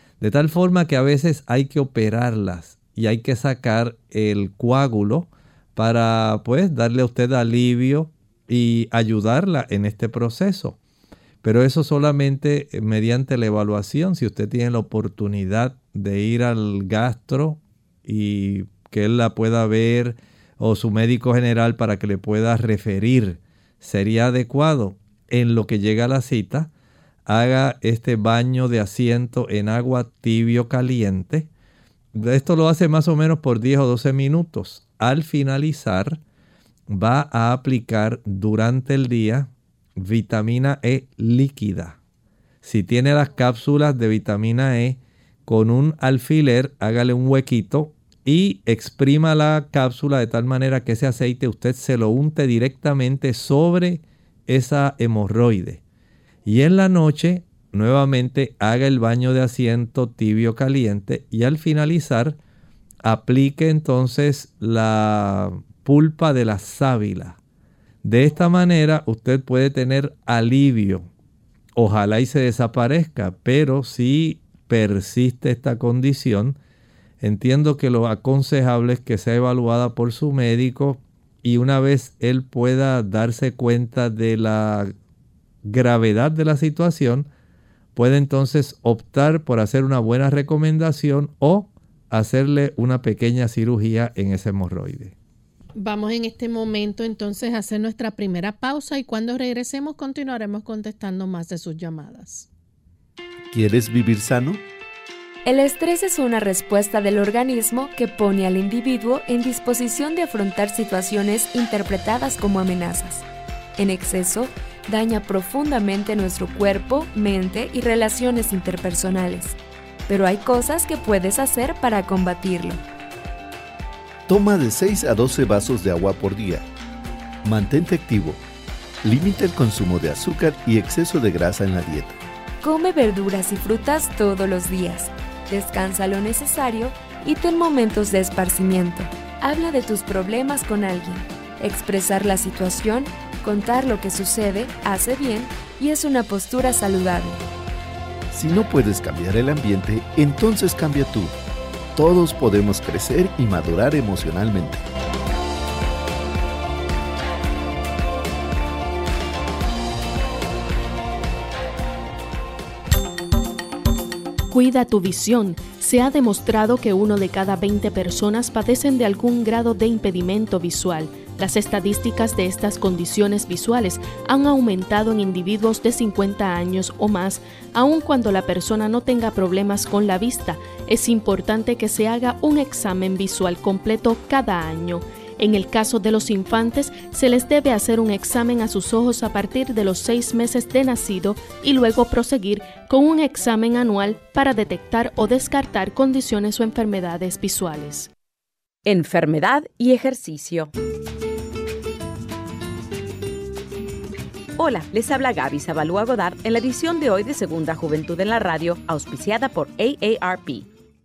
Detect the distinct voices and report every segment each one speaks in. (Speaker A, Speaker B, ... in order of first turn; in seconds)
Speaker A: 0.2-10.8, 11.4-26.7, 27.3-31.5, 32.1-36.2, 36.9-42.0, 42.6-55.8, 56.4-62.4, 63.0-67.4, 68.0-71.1, 71.7-76.6, 77.2-84.9, 85.6-87.3, 87.9-95.1
Speaker B: 95.8-102.5
Speaker C: 103.5-104.6, 124.3-126.7, 127.4-128.4, 129.0-132.2, 148.3-151.3, 151.9-154.8
Speaker D: 105.4-113.2, 113.8-119.6, 120.1-122.8, 132.6-147.4
Speaker E: 164.5-198.1
Speaker F: 198.8-200.7, 204.6-210.7